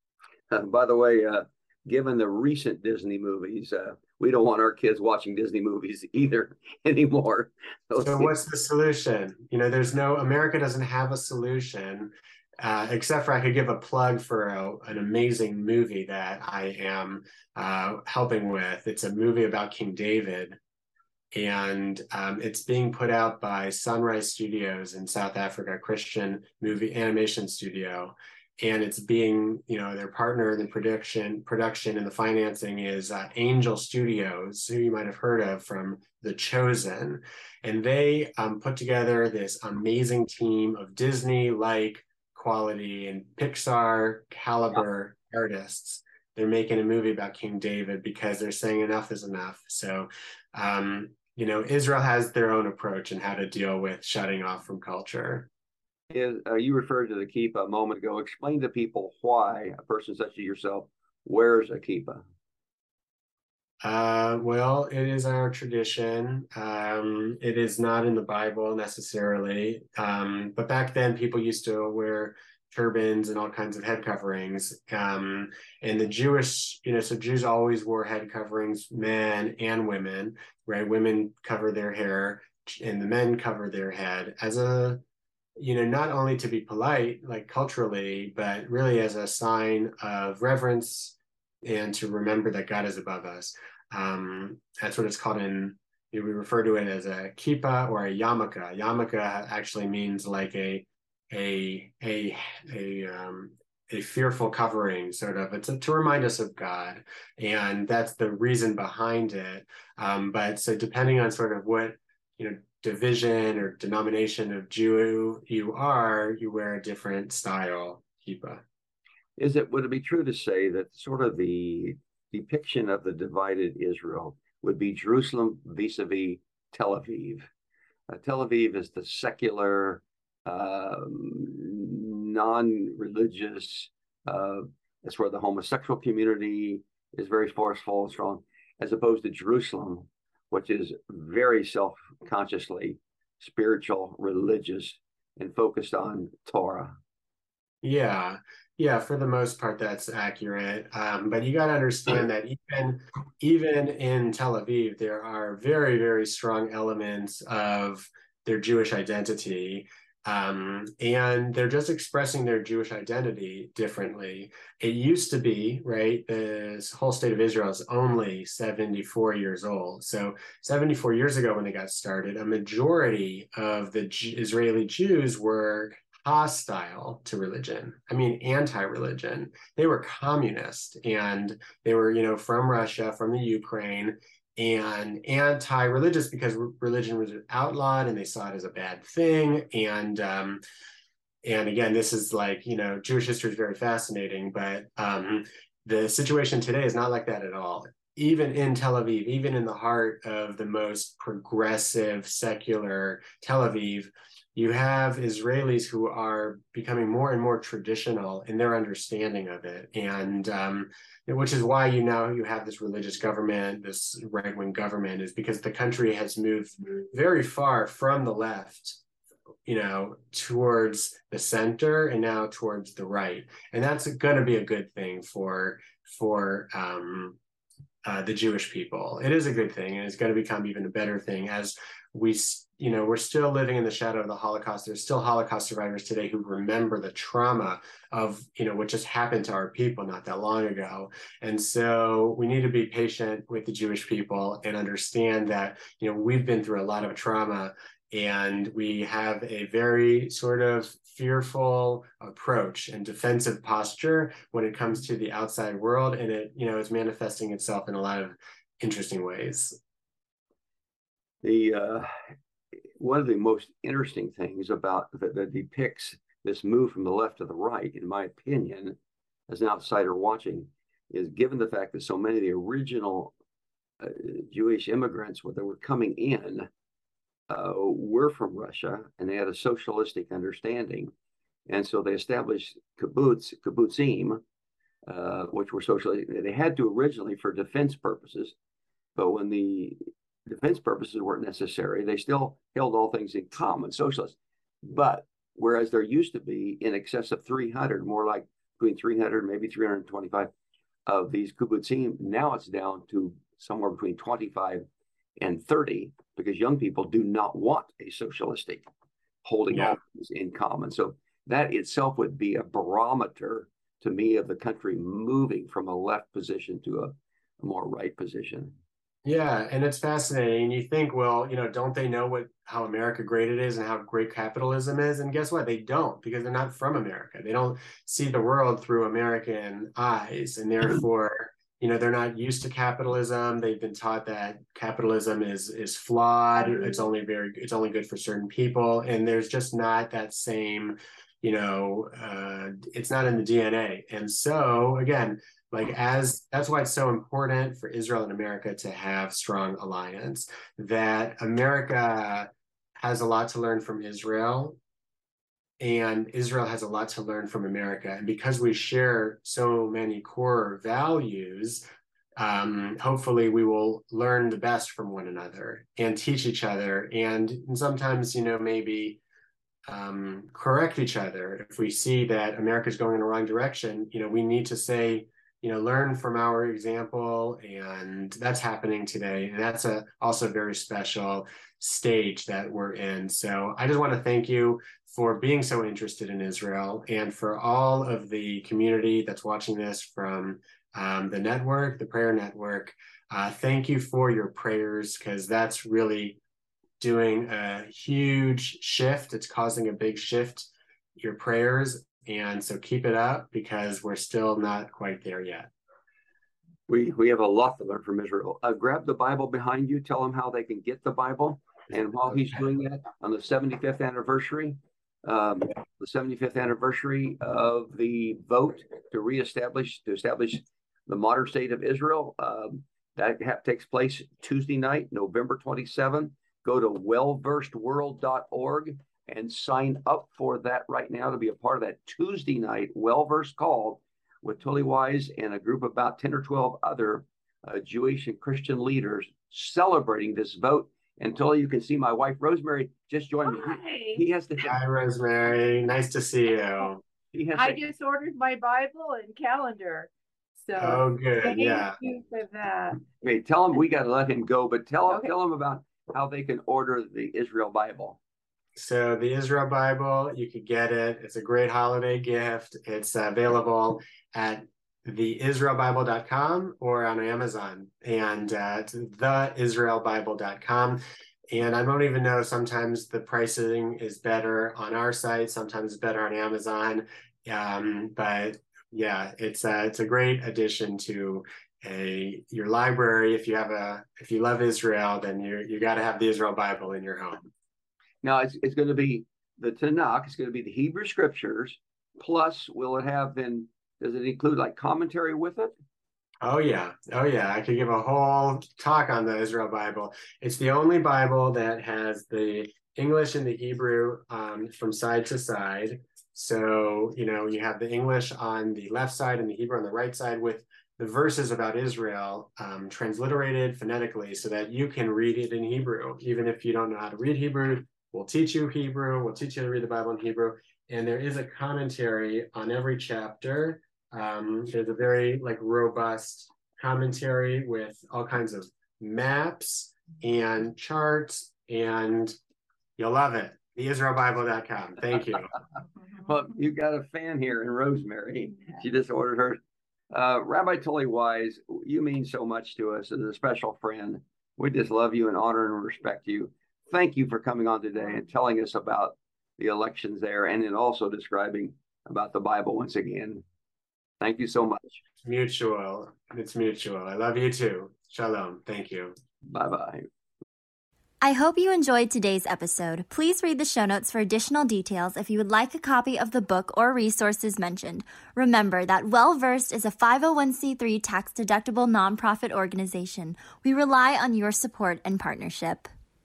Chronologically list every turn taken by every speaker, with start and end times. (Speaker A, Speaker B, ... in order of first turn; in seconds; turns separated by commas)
Speaker A: 0.5-8.3, Speaker B: 8.0-20.6, Speaker B: 21.3-55.5, Speaker A: 56.1-62.2, Speaker B: 63.8-85.0, Speaker B: 85.6-118.6, Speaker A: 119.4-127.5, Speaker A: 128.1-147.0, Speaker B: 147.8-190.6, Speaker B: 191.4-219.0, Speaker B: 219.7-227.4, Speaker B: 228.1-259.8, Speaker A: 261.4-262.1, Speaker A: 263.0-269.0, Speaker A: 269.5-273.3, Speaker A: 274.0-276.7, Speaker A: 277.5-281.1, Speaker A: 281.7-284.4, Speaker A: 285.1-288.6, Speaker A: 289.2-300.5, Speaker A: 301.1-304.9, Speaker A: 305.4-308.9, Speaker A: 309.4-318.8, Speaker B: 309.7-310.0, Speaker B: 319.2-354.8, Speaker B: 355.8-361.9, Speaker B: 362.4-369.2, Speaker B: 369.9-396.4, Speaker B: 397.0-405.7, Speaker A: 406.9-444.8, Speaker C: 443.4-444.2, Speaker B: 444.6-447.0, Speaker A: 447.3-447.8, Speaker C: 447.6-450.1, Speaker C: 450.6-453.1, Speaker B: 450.8-452.0, Speaker A: 453.2-458.2, Speaker B: 458.8-471.0, Speaker B: 471.5-487.5, Speaker A: 488.2-495.7, Speaker B: 496.4-532.4, Speaker B: 533.0-535.5, Speaker A: 536.3-539.6, Speaker A: 540.1-553.4, Speaker A: 554.2-555.0, Speaker B: 555.2-559.1, Speaker A: 559.5-560.1, Speaker D: 561.2-575.9